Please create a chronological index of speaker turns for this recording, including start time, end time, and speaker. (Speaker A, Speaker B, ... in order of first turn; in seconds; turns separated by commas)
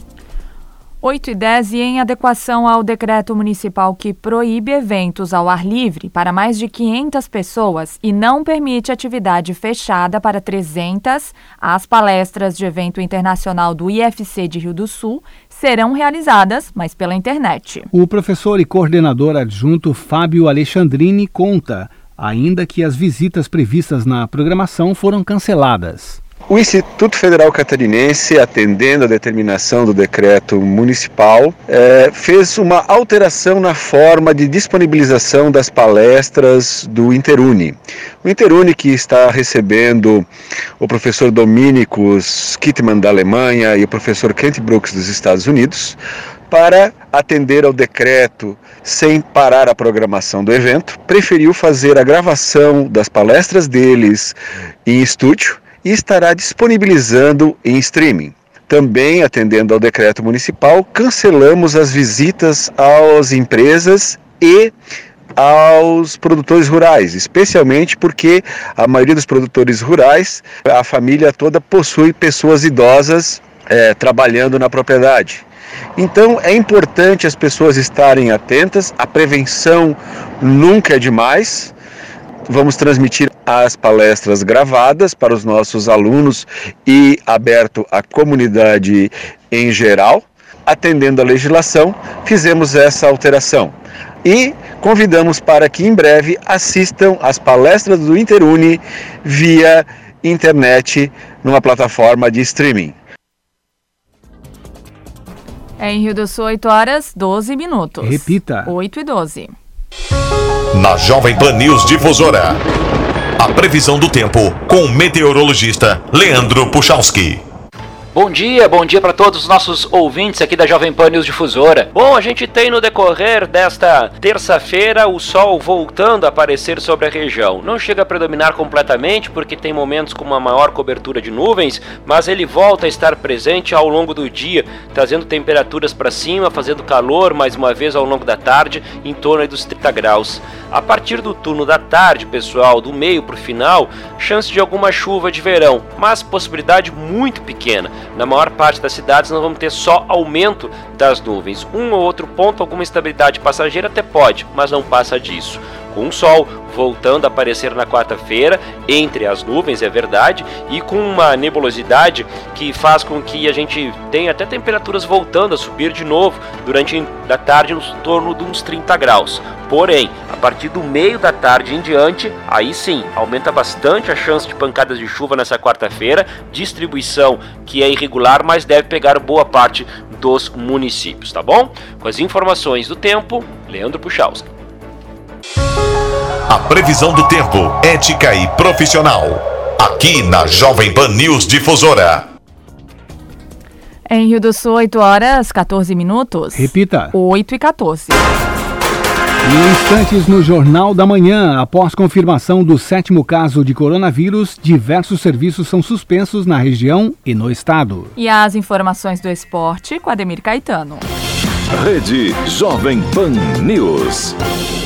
Speaker A: 1.0-17.9, Speaker B: 17.9-26.2, Speaker C: 26.5-40.3, Speaker C: 40.8-46.0, Speaker C: 46.5-64.7, Speaker C: 65.3-75.4, Speaker C: 76.0-81.7, Speaker C: 82.5-103.0, Speaker A: 105.8-109.5, Speaker B: 108.0-108.7, Speaker D: 110.7-112.6, Speaker D: 113.4-117.4, Speaker E: 118.1-184.5, Speaker D: 186.5-192.2, Speaker A: 194.1-198.2, Speaker B: 196.6-197.1, Speaker B: 199.4-208.1, Speaker A: 208.1-211.1, Speaker F: 211.7-214.3